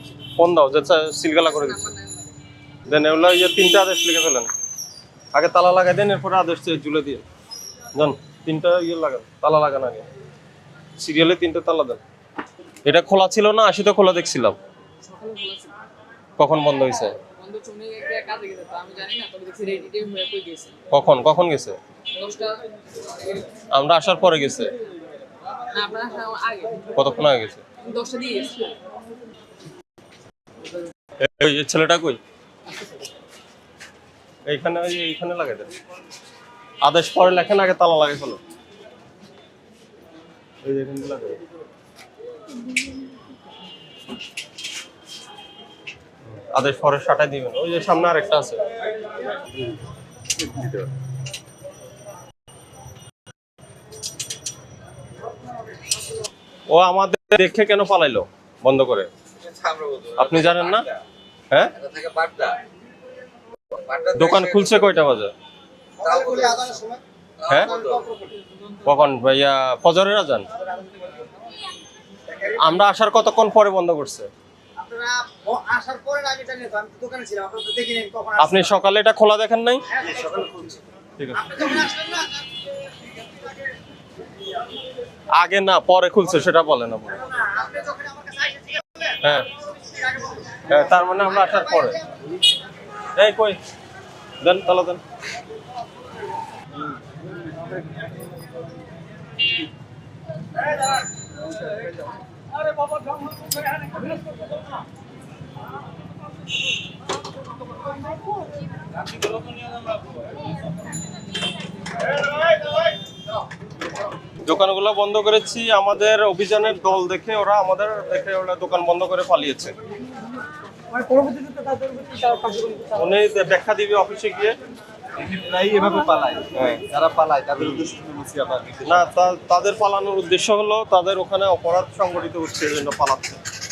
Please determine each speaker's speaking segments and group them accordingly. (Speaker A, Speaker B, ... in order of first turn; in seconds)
Speaker A: 0.4-1.9, 2.9-4.5, 5.3-7.2, 8.0-10.1, 11.0-12.0, 12.8-14.6, 16.4-17.2, 20.9-21.8, 23.7-24.7, 26.9-27.6, 31.2-32.2, 34.5-35.7, 36.8-38.4, 40.6-41.4, 46.5-48.6, 56.7-59.1, 60.1-60.9, 64.1-65.3, 67.5-67.8, 68.8-70.5, 72.6-74.3, 78.4-79.8, 81.2-81.7, 85.3-87.2, 89.2-89.5, 90.7-92.0, 93.2-93.6, 94.4-95.0, 114.5-119.8, 122.9-124.6, 126.5-126.9, 128.8-133.4
Speaker B: 1.4-2.4, 15.0-15.7, 17.3-20.8, 22.2-22.6, 25.7-26.9, 27.8-28.8
Speaker C: 59.4-60.9, 61.8-62.6, 63.7-64.6, 66.2-66.6, 67.5-68.1, 125.2-129.0
Speaker D: 66.0-67.0, 67.8-68.2, 74.8-78.4, 80.0-80.8, 81.5-82.4, 87.4-88.9, 121.0-122.8